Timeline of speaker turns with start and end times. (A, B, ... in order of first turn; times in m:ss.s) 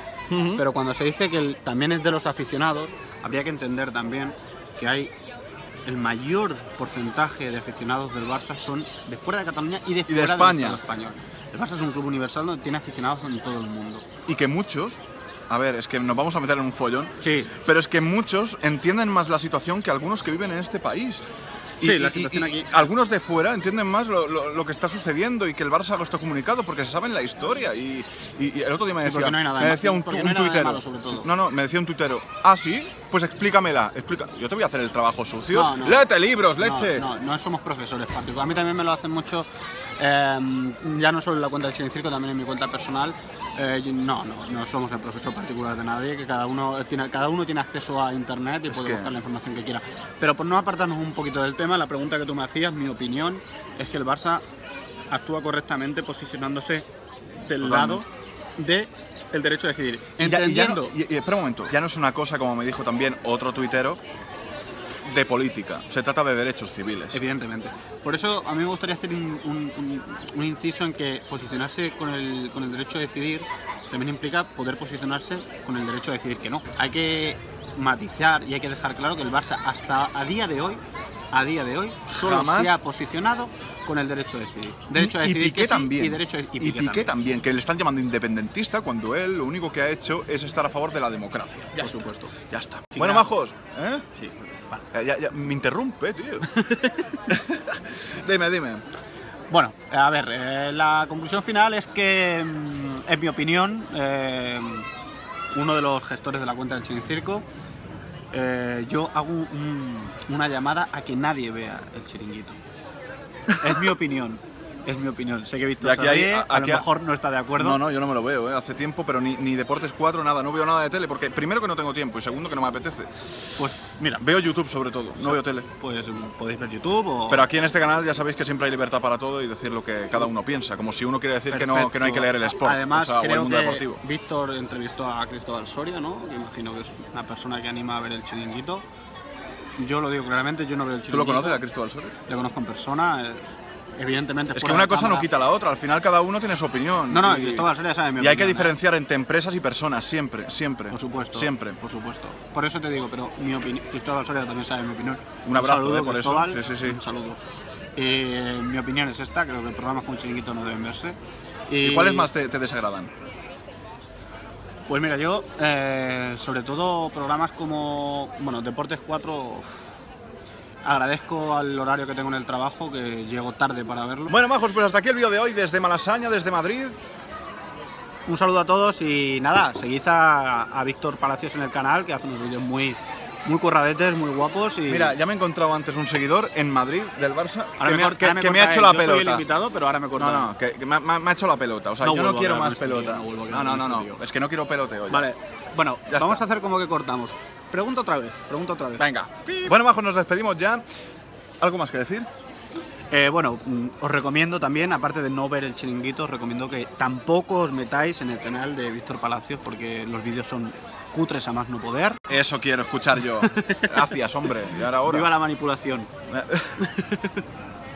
0:00.3-0:00.6 A
0:00.6-0:05.1 B
0:05.9-0:14.0 B
0:10.1-0:10.8 A
0:14.3-0:15.0 A
0:15.5-0:21.2 A
0:17.2-0:17.5 B
0:21.8-0:37.1 A
0:21.8-0:22.7 B
0:29.0-0:31.3 B
0:35.5-0:39.5 B
0:40.0-0:54.4 B
0:48.7-0:49.2 A
0:55.1-0:56.9 B
0:57.4-0:58.1 B
0:57.6-0:58.0 A
0:58.6-1:00.9 B
1:00.2-1:04.0 A
1:05.0-1:07.2 A
1:07.1-1:27.1 B
1:22.2-1:22.8 A
1:25.0-1:34.0 A
1:31.8-1:32.3 B
1:33.0-1:33.3 B
1:34.2-1:34.8 B
1:34.9-1:36.5 A
1:36.5-1:37.2 B
1:37.3-1:38.8 A
1:39.5-1:44.9 B
1:45.5-1:47.4 B
1:48.3-1:52.6 B
1:53.6-1:57.8 B
1:55.8-1:56.8 A
1:57.6-2:03.1 A
2:03.6-2:04.2 B
2:04.2-2:05.7 A
2:05.2-2:07.5 B
2:07.3-2:14.0 A
2:11.5-2:18.8 B
2:19.8-2:21.6 B
2:21.1-2:22.2 A
2:22.3-2:23.4 B
2:24.0-2:25.3 B
2:24.6-2:31.8 A
2:27.1-2:28.7 B
2:30.9-2:37.4 B
2:35.4-2:37.0 A
2:38.0-2:41.2 B
2:41.7-2:42.3 B
2:41.8-2:43.1 A
2:44.9-2:49.7 B
2:50.8-2:54.3 B
2:54.3-2:57.0 A
2:58.3-3:05.2 B
3:04.9-3:09.4 A
3:07.8-3:10.5 B
3:10.2-3:15.3 A
3:12.0-3:14.2 B
3:15.1-3:19.7 B
3:16.1-3:16.4 A
3:19.0-3:20.8 A
3:21.6-3:22.3 A
3:23.1-3:32.2 B
3:32.3-3:35.3 A
3:33.2-3:34.2 B
3:35.0-3:36.1 B
3:36.3-3:36.9 A
3:36.8-3:37.4 B